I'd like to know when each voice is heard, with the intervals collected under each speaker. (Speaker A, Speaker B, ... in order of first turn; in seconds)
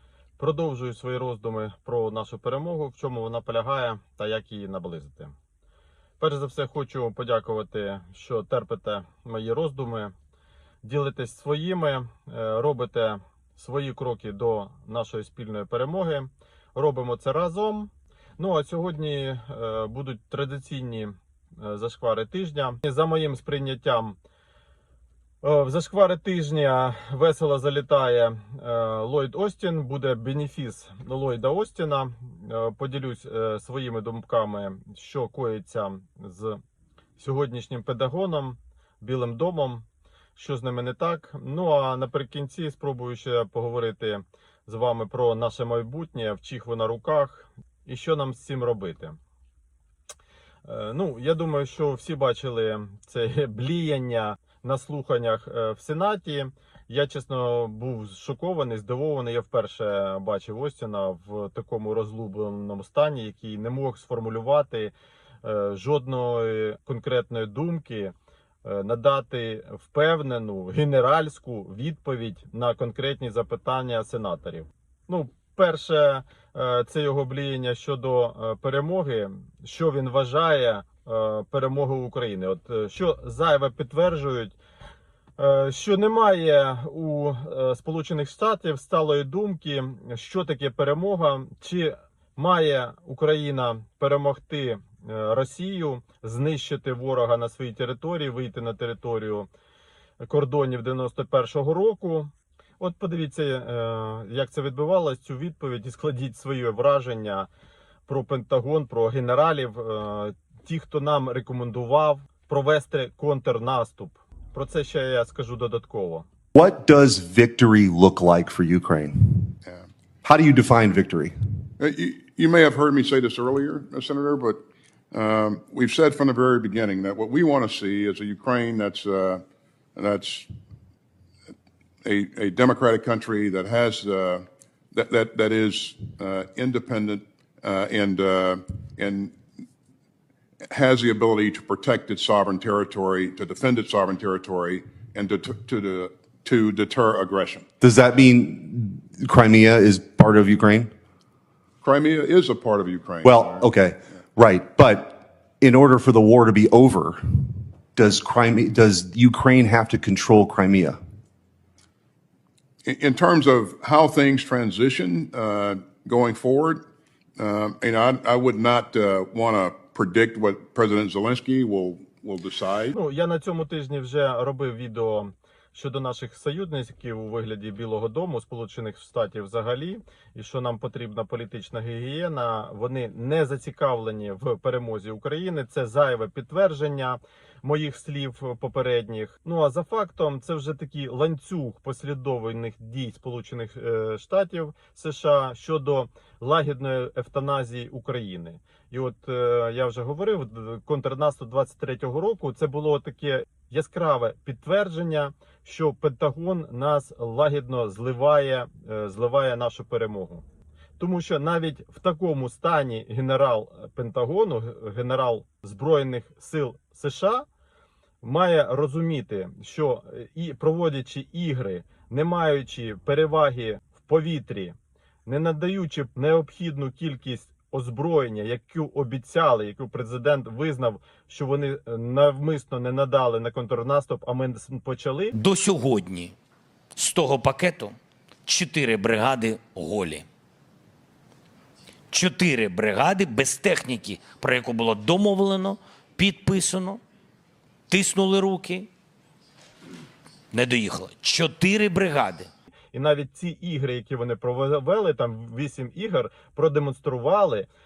Speaker A: 0.4-5.3, 6.2-10.1, 10.8-24.2, 25.4-36.6, 37.2-39.8, 40.4-49.2, 50.6-84.5, 85.4-99.5, 100.2-107.5, 108.1-116.3, 172.9-210.4, 211.0-217.4, 218.2-224.7, 225.2-235.3, 252.9-257.7
Speaker B: 116.5-119.5, 120.2-121.3, 147.8-150.9, 153.2-161.0
Speaker C: 121.8-124.6, 125.1-129.4, 129.9-130.5, 132.0-139.3, 140.7-147.7, 151.8-153.6, 162.8-166.8, 167.4-172.9
Speaker D: 235.3-236.3, 236.9-240.2, 242.1-247.0, 247.9-248.9, 250.5-252.5